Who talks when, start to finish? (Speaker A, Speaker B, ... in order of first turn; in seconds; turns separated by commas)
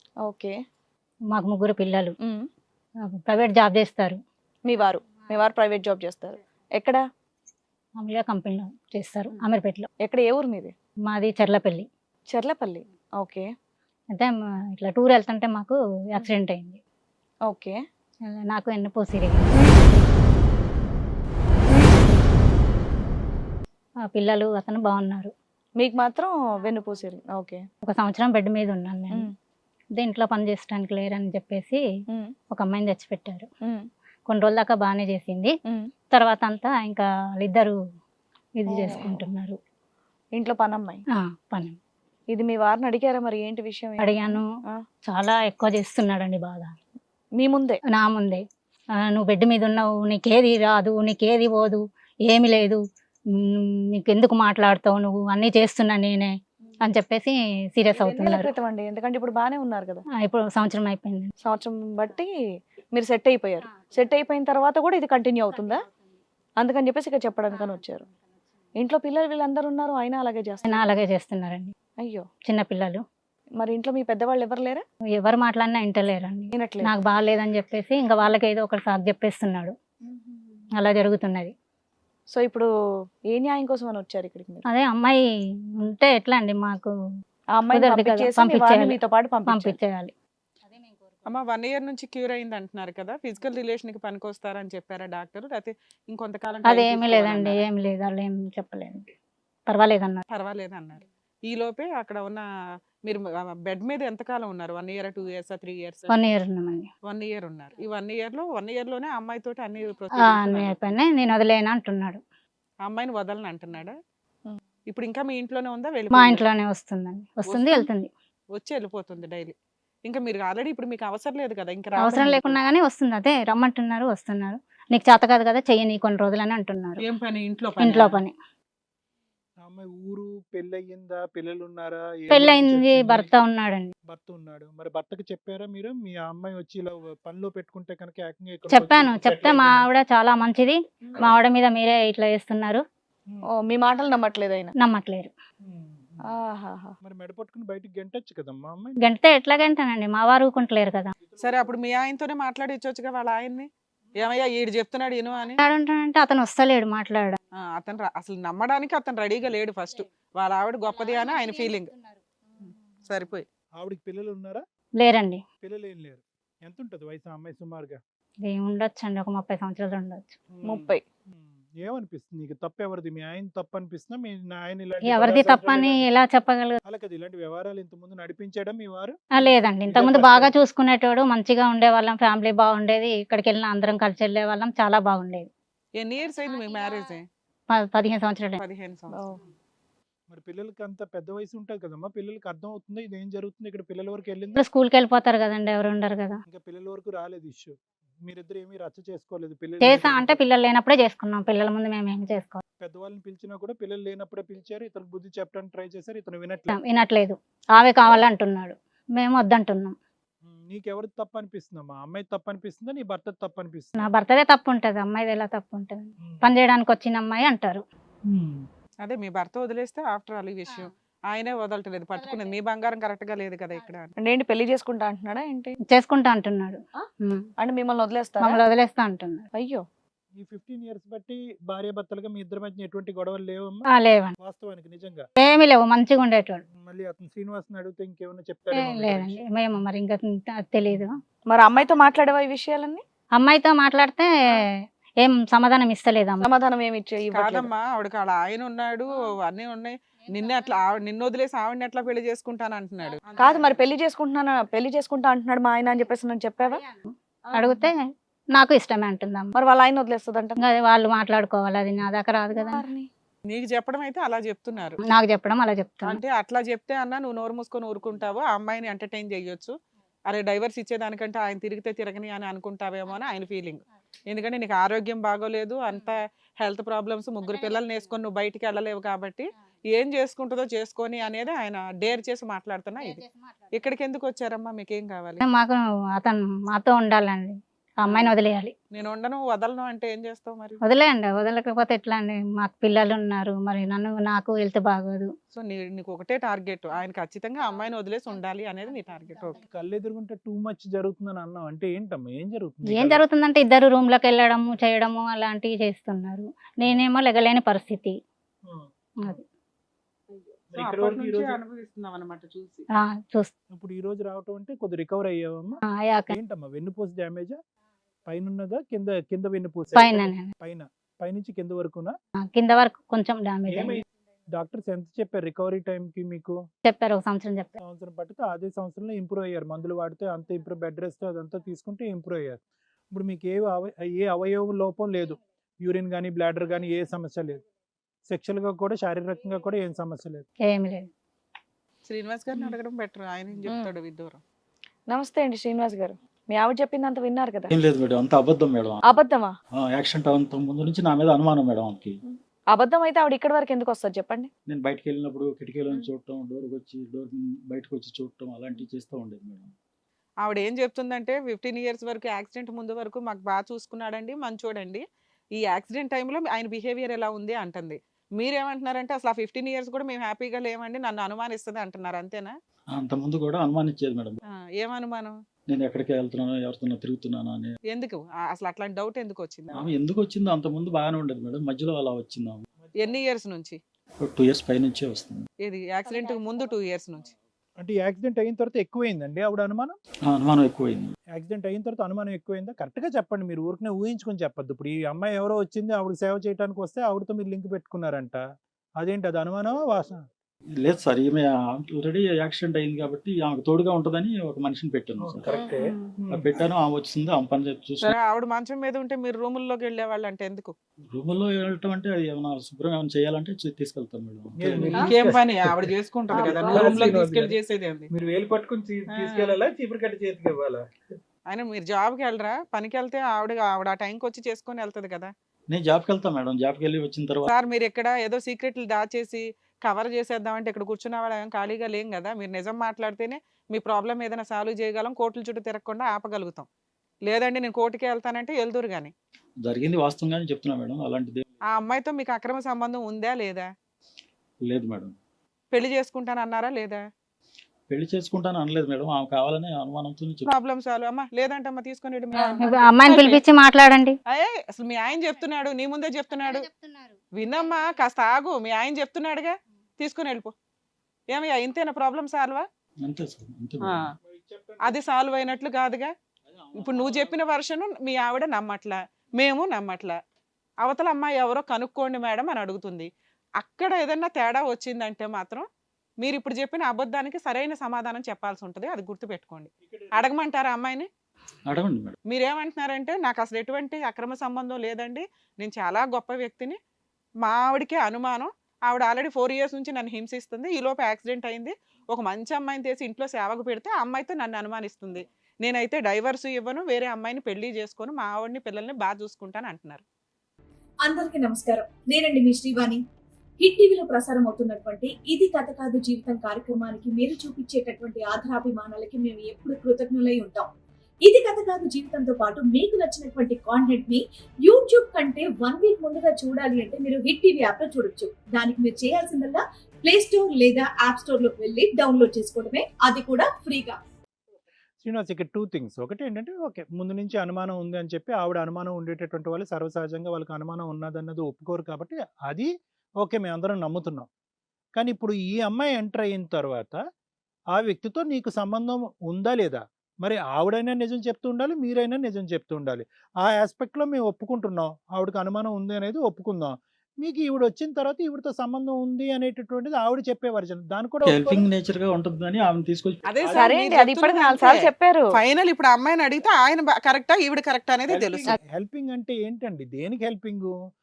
Speaker A: 0.2-0.6, Speaker B: 1.3-2.1, Speaker A: 2.2-2.5, Speaker B: 3.1-4.2, Speaker A: 4.7-7.0, Speaker B: 8.0-9.9, Speaker A: 10.0-10.7, Speaker B: 11.1-11.9, Speaker A: 12.3-13.5, Speaker B: 14.1-16.8, Speaker A: 17.5-17.8, Speaker B: 18.3-19.6, Speaker B: 24.1-25.3, Speaker A: 25.8-27.6, Speaker B: 27.9-29.3, Speaker B: 30.0-31.8, Speaker B: 32.5-33.5, Speaker B: 34.3-35.5, Speaker A: 35.7-35.9, Speaker B: 36.1-37.8, Speaker B: 38.6-39.6, Speaker A: 38.7-39.2, Speaker A: 40.3-41.0, Speaker B: 41.2-41.8, Speaker A: 42.3-44.8, Speaker B: 44.0-44.4, Speaker B: 45.1-46.7, Speaker A: 47.4-47.8, Speaker B: 47.9-48.4, Speaker B: 49.0-52.8, Speaker B: 53.5-56.3, Speaker B: 56.8-58.5, Speaker A: 58.0-60.0, Speaker B: 60.2-61.3, Speaker A: 61.4-62.3, Speaker A: 62.9-65.8, Speaker A: 66.6-68.1, Speaker A: 68.8-70.8, Speaker B: 70.6-71.7, Speaker A: 72.0-72.3, Speaker B: 72.5-73.0, Speaker A: 73.6-74.8, Speaker B: 75.2-79.7, Speaker A: 76.5-76.9, Speaker A: 80.1-80.4, Speaker B: 80.8-81.5, Speaker A: 82.3-82.7, Speaker A: 83.3-84.7, Speaker B: 84.7-85.2, Speaker B: 85.8-86.9, Speaker A: 87.5-89.8, Speaker B: 87.7-90.1, Speaker C: 91.3-97.6, Speaker B: 96.7-99.1, Speaker B: 99.7-100.2, Speaker C: 100.3-102.5, Speaker C: 103.1-106.1, Speaker B: 106.1-106.9, Speaker C: 107.1-110.7, Speaker B: 110.2-112.2, Speaker C: 112.8-114.0, Speaker C: 114.9-116.4, Speaker B: 116.1-118.1, Speaker C: 117.5-117.9, Speaker C: 118.5-119.5, Speaker C: 120.1-122.6, Speaker B: 122.0-127.0, Speaker C: 127.0-128.2, Speaker B: 127.8-128.3, Speaker D: 129.6-133.3, Speaker B: 132.3-133.9, Speaker D: 134.1-139.9, Speaker B: 138.7-142.8, Speaker A: 143.5-144.7, Speaker B: 144.8-145.3, Speaker D: 145.6-146.3, Speaker A: 146.3-146.9, Speaker D: 147.0-149.0, Speaker B: 149.0-151.2, Speaker C: 151.4-155.6, Speaker B: 155.6-157.4, Speaker C: 157.6-161.9, Speaker B: 161.1-162.2, Speaker C: 163.1-163.4, Speaker D: 163.8-164.6, Speaker B: 165.0-165.4, Speaker D: 165.6-168.0, Speaker B: 168.5-170.3, Speaker D: 170.5-176.1, Speaker A: 170.6-171.0, Speaker B: 175.1-176.8, Speaker D: 176.8-180.5, Speaker B: 179.3-185.5, Speaker C: 186.0-187.2, Speaker B: 187.7-188.6, Speaker C: 188.6-189.2, Speaker D: 190.3-194.6, Speaker B: 194.6-196.4, Speaker D: 196.5-200.4, Speaker B: 199.8-202.6, Speaker D: 202.8-206.8, Speaker B: 206.7-209.9, Speaker D: 210.4-214.1, Speaker B: 214.0-217.8, Speaker D: 216.2-216.5, Speaker D: 218.3-218.7, Speaker C: 219.0-224.1, Speaker A: 224.2-225.8, Speaker B: 225.9-227.5, Speaker A: 227.6-228.6, Speaker B: 228.4-229.5, Speaker A: 229.5-229.8, Speaker D: 230.4-233.9, Speaker B: 233.9-234.3, Speaker D: 234.4-235.3, Speaker B: 235.4-236.6, Speaker D: 236.7-239.4, Speaker B: 238.7-241.2, Speaker A: 241.5-243.0, Speaker B: 243.4-244.7, Speaker B: 245.2-246.5, Speaker A: 246.4-247.7, Speaker C: 247.3-253.7, Speaker A: 253.4-256.8, Speaker B: 256.7-257.9, Speaker A: 257.5-257.9, Speaker B: 258.6-259.5, Speaker A: 259.6-260.6, Speaker B: 260.6-262.9, Speaker A: 262.5-263.1, Speaker C: 263.5-265.0, Speaker B: 265.1-266.2, Speaker C: 266.0-269.7, Speaker C: 270.3-285.4, Speaker B: 283.0-283.5, Speaker B: 285.4-288.7, Speaker C: 288.1-288.3, Speaker C: 288.9-290.8, Speaker B: 290.8-295.3, Speaker C: 295.5-299.6, Speaker D: 299.7-303.2, Speaker B: 302.9-308.2, Speaker D: 308.6-309.4, Speaker C: 310.3-312.9, Speaker D: 310.7-311.6, Speaker B: 313.0-313.5, Speaker D: 313.7-317.6, Speaker B: 316.0-316.4, Speaker D: 318.3-322.1, Speaker B: 319.9-320.5, Speaker B: 322.4-324.0, Speaker D: 323.7-324.0, Speaker D: 324.5-326.6, Speaker B: 326.9-327.7, Speaker D: 327.8-332.6, Speaker D: 333.1-337.6, Speaker D: 338.3-340.5, Speaker B: 340.6-341.1, Speaker C: 342.1-344.4, Speaker A: 345.1-347.7, Speaker E: 347.7-349.0, Speaker A: 349.1-349.5, Speaker E: 349.8-352.2, Speaker A: 352.3-354.5, Speaker E: 354.7-359.7, Speaker C: 360.4-365.0, Speaker C: 365.6-372.6, Speaker E: 372.9-374.4, Speaker C: 374.8-375.4, Speaker E: 375.7-377.8, Speaker C: 377.9-379.9, Speaker E: 379.7-382.6, Speaker D: 382.8-383.1, Speaker C: 383.0-383.8, Speaker E: 384.2-385.5, Speaker C: 385.6-387.3, Speaker A: 386.1-386.8, Speaker D: 387.8-390.0, Speaker E: 390.3-391.1, Speaker D: 391.3-398.4, Speaker D: 399.0-400.2, Speaker E: 400.8-405.4, Speaker D: 405.2-406.6, Speaker E: 406.3-408.1, Speaker C: 408.0-410.7, Speaker E: 411.1-415.0, Speaker D: 414.6-417.6, Speaker C: 414.9-418.1, Speaker D: 418.1-420.8, Speaker C: 419.1-419.6, Speaker C: 421.5-425.3, Speaker E: 425.7-427.5, Speaker C: 427.5-436.7, Speaker C: 437.2-439.1, Speaker E: 439.6-441.5, Speaker C: 441.7-443.7, Speaker E: 444.6-445.1, Speaker C: 445.7-447.0, Speaker E: 447.9-450.5, Speaker C: 450.5-453.4, Speaker B: 452.6-454.2, Speaker C: 454.3-456.7, Speaker B: 456.4-457.2, Speaker C: 457.4-460.5, Speaker C: 461.3-462.6, Speaker E: 463.0-464.1, Speaker D: 464.2-465.0, Speaker C: 464.8-466.1, Speaker E: 466.5-467.4, Speaker C: 466.8-470.2, Speaker C: 470.8-473.1, Speaker C: 473.6-475.6, Speaker C: 476.2-481.1, Speaker D: 479.8-480.2, Speaker E: 481.7-482.2, Speaker C: 482.3-486.8, Speaker C: 487.4-500.0, Speaker F: 501.0-503.0, Speaker F: 503.6-510.7, Speaker F: 511.2-524.0, Speaker D: 525.0-532.7, Speaker D: 533.2-534.3, Speaker D: 535.0-537.0, Speaker D: 537.7-551.6, Speaker E: 551.2-553.4, Speaker C: 553.3-558.5, Speaker D: 553.4-553.7, Speaker A: 553.5-555.2, Speaker D: 558.1-560.7